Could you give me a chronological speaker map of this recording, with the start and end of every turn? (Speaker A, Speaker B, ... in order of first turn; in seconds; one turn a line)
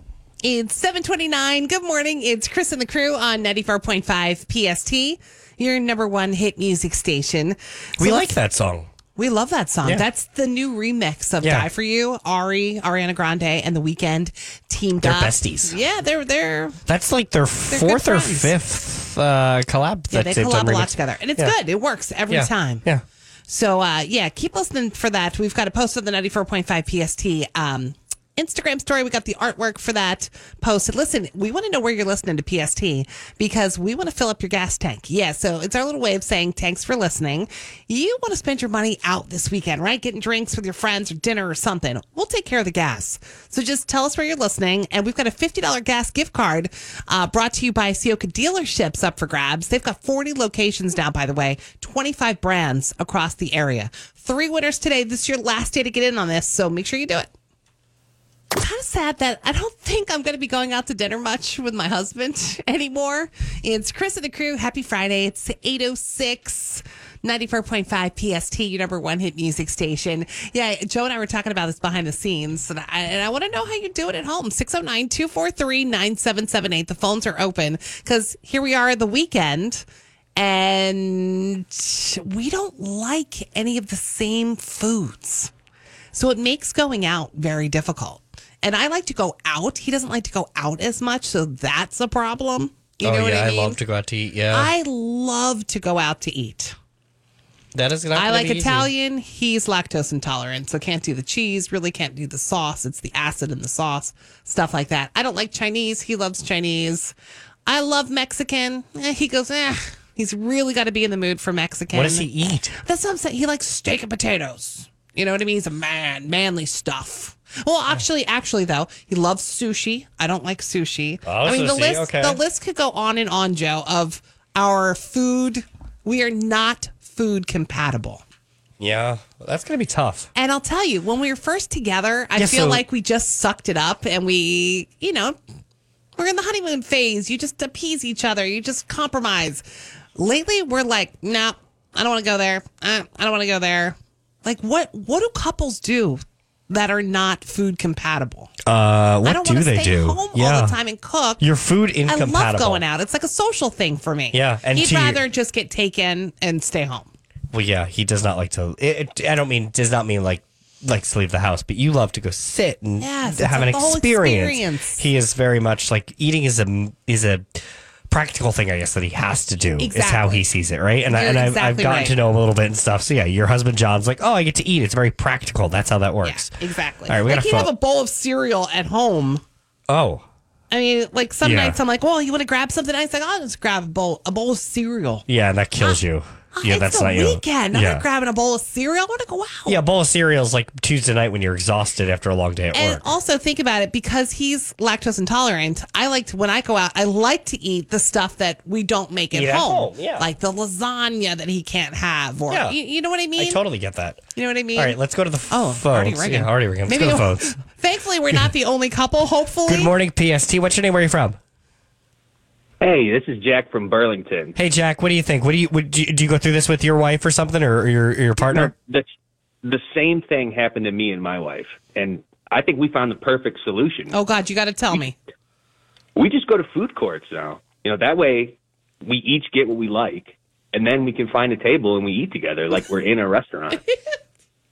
Speaker A: 0.4-8.3
Speaker B: 8.0-8.9
Speaker A: 9.2-16.8
Speaker B: 11.4-11.7
Speaker B: 15.0-15.8
Speaker B: 16.9-21.5
Speaker A: 17.7-18.5
Speaker A: 20.1-22.8
Speaker B: 22.3-23.0
Speaker A: 23.5-57.3
Speaker A: 58.5-79.8
Speaker A: 80.3-85.5
Speaker A: 86.1-93.8
Speaker B: 93.0-94.7
Speaker A: 94.5-96.7
Speaker B: 97.7-98.9
Speaker A: 98.1-107.1
Speaker A: 107.7-112.3
Speaker B: 111.9-112.8
Speaker A: 112.8-128.2
Speaker B: 121.2-122.4
Speaker B: 128.8-130.3
Speaker A: 130.3-135.4
Speaker B: 132.3-132.8
Speaker A: 136.2-139.6
Speaker A: 140.1-148.5
Speaker B: 148.6-150.8
Speaker A: 149.2-151.4
Speaker B: 151.4-152.8
Speaker A: 152.1-157.1
Speaker B: 154.3-155.2
Speaker B: 157.5-176.5
Speaker A: 163.0-165.0
Speaker A: 169.8-170.4
Speaker A: 171.1-172.2
Speaker A: 176.2-179.4
Speaker B: 177.1-177.7
Speaker B: 179.9-180.2
Speaker A: 180.7-185.2
Speaker B: 181.4-181.8
Speaker B: 185.3-188.0
Speaker A: 186.5-189.8
Speaker B: 189.7-193.1
Speaker A: 192.7-203.6
Speaker B: 199.3-200.3
Speaker B: 202.5-202.8
Speaker B: 203.3-204.2
Speaker A: 204.3-205.0
Speaker B: 204.8-207.5
Speaker A: 205.5-209.9
Speaker B: 209.7-211.4
Speaker C: 212.8-214.5
Speaker B: 214.6-218.7
Speaker C: 218.4-219.1
Speaker C: 219.6-224.1
Speaker A: 224.1-225.2
Speaker C: 226.2-233.8